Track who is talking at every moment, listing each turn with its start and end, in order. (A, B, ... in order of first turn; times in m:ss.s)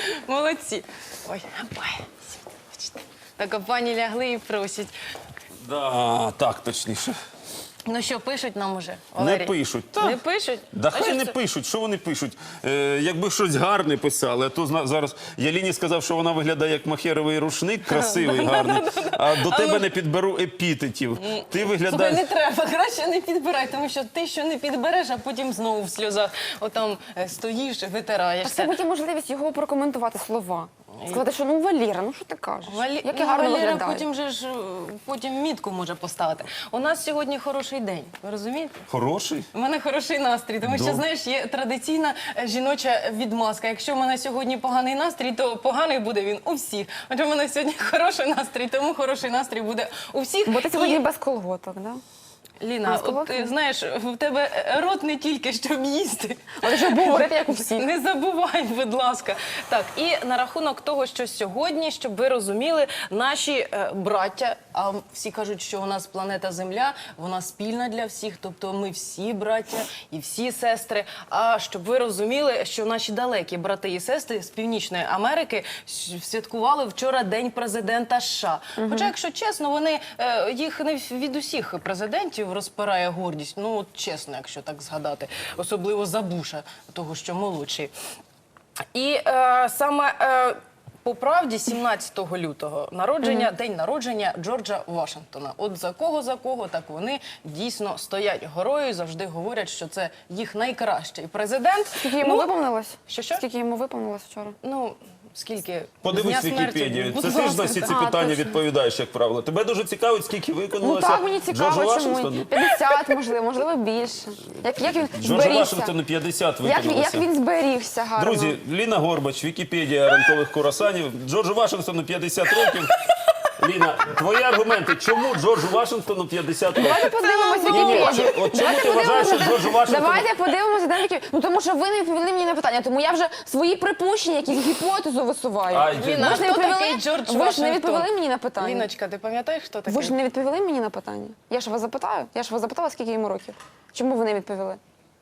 0:00.1-0:04.9 A
0:05.6-0:07.1 B
0:07.9-0:11.4 A
0:09.2-0:10.2 B
0:10.7-0:22.2 B
0:17.9-0:19.9 A
0:21.2-0:28.7 A
0:28.4-0:34.0 C
0:32.7-0:38.8 A
0:38.9-0:39.5 B
0:39.5-0:51.0 A
0:40.6-0:41.0 B
0:50.4-0:52.0 C
0:52.6-1:27.9 A
0:52.8-0:53.5 C
0:56.6-0:57.9 C
1:18.8-1:19.1 C
1:28.9-1:42.5 A
1:33.2-1:33.5 C
1:42.0-1:44.6 C
1:43.1-1:43.4 A
1:44.6-1:48.0 A
1:46.0-1:52.5 B
1:47.8-1:48.6 C
1:50.8-1:55.9 C
1:55.2-1:57.2 B
1:56.6-1:58.6 C
1:58.2-2:02.9 B
2:02.6-2:03.1 A
2:03.6-2:10.3 B
2:06.7-2:18.8 C
2:07.0-2:08.5 A
2:15.7-2:16.5 B
2:15.9-2:20.1 A
2:19.9-2:24.8 C